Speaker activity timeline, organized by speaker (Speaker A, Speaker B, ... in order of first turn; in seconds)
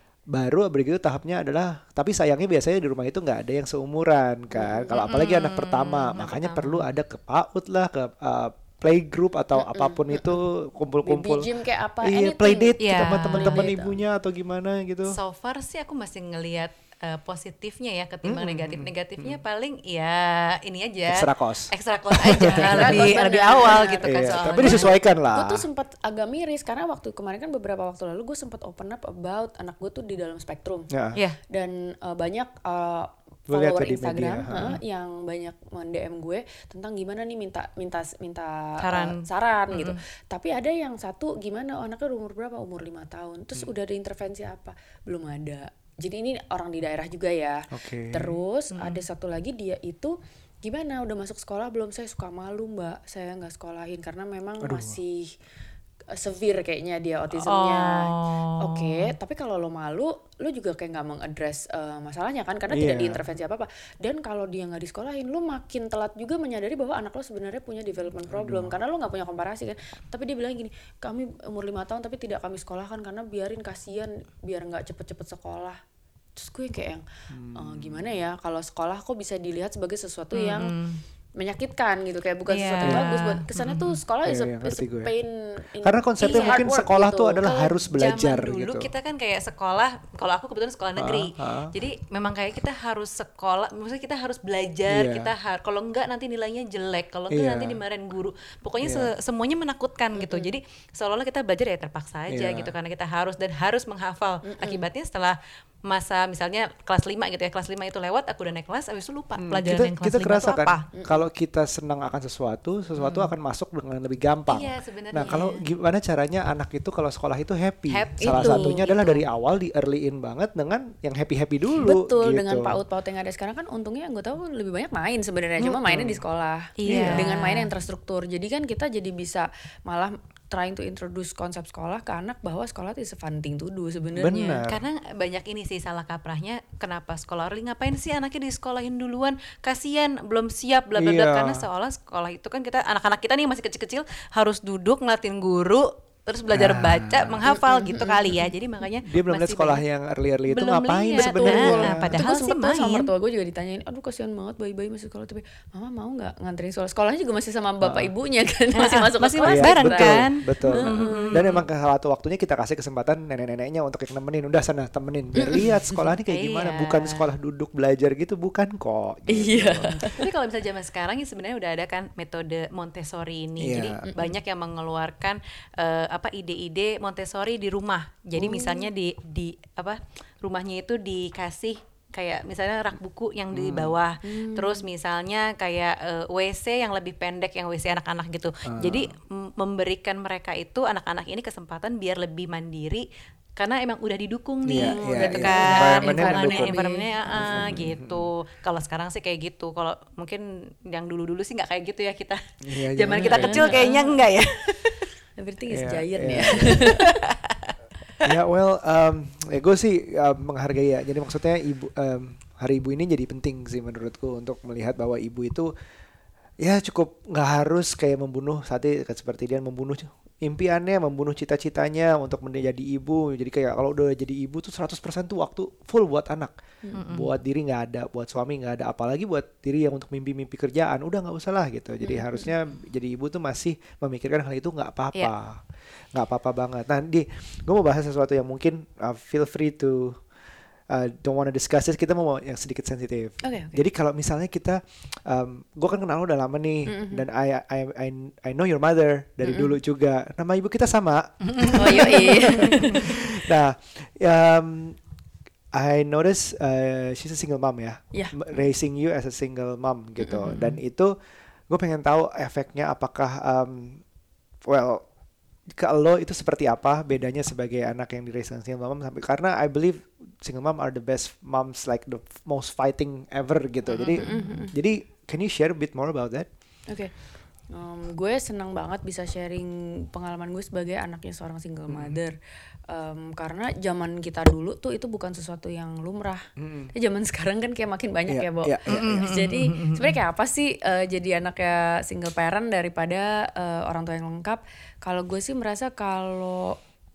Speaker A: 0.3-11.5, 12.0-15.2, 18.2-19.4, 21.1-23.2, 24.0-25.6, 30.9-31.2, 33.5-34.8, 47.7-48.3, 54.6-55.0, 62.7-63.2, 68.2-68.8, 77.3-78.2, 84.2-85.1, 85.8-88.9, 91.0-91.7, 94.9-95.3, 97.3-97.8, 98.8-99.1, 102.3-102.7, 109.4-122.8, 125.6-126.2, 126.9-127.4, 134.2-134.8, 140.9-141.7, 146.5-147.4, 149.1-152.2, 157.8-158.1, 159.5-170.0, 173.6-174.1, 183.5-184.0, 188.6-189.1, 194.7-196.8, 197.3-198.3, 202.6-203.8, 205.7-206.9, 208.2-215.7, 216.6-226.5, 227.1-235.6, 236.1-240.2, 240.9-255.0, 255.7-261.1, 261.7-264.0, 264.6-265.0, 265.7-276.5, 281.9-282.2, 286.6-286.9, 288.3-289.2
Speaker B: 4.5-4.9, 9.5-10.4, 11.0-14.0, 22.3-30.9, 31.5-55.3, 56.1-75.8, 76.3-77.0, 77.5-80.7, 81.4-87.8, 100.1-100.5, 104.4-104.8, 110.9-111.2, 118.2-118.8, 121.8-134.6, 147.4-148.5, 151.2-161.4, 165.4-166.0, 169.3-170.2, 178.4-178.9, 184.2-184.8, 194.7-197.8, 203.1-204.2, 205.4-207.2, 232.0-232.5, 243.4-243.8, 246.9-247.2, 249.4-249.7, 251.7-253.2, 258.1-258.5, 274.2-274.7, 277.7-282.4, 282.9-296.8
Speaker C: 5.0-6.9, 12.8-13.7, 15.1-24.9, 31.1-31.4, 38.8-40.0, 48.7-49.0, 57.3-59.1, 80.3-81.0, 82.5-84.0, 86.2-86.6, 87.9-110.9, 113.0-113.3, 114.5-115.6, 117.9-119.2, 126.8-127.7, 134.7-149.8, 150.5-153.1, 158.7-161.7, 166.3-167.2, 169.5-193.0, 193.6-205.1, 206.5-207.7, 226.9-227.3, 251.4-253.2, 260.3-260.8, 273.9-274.5, 288.9-290.2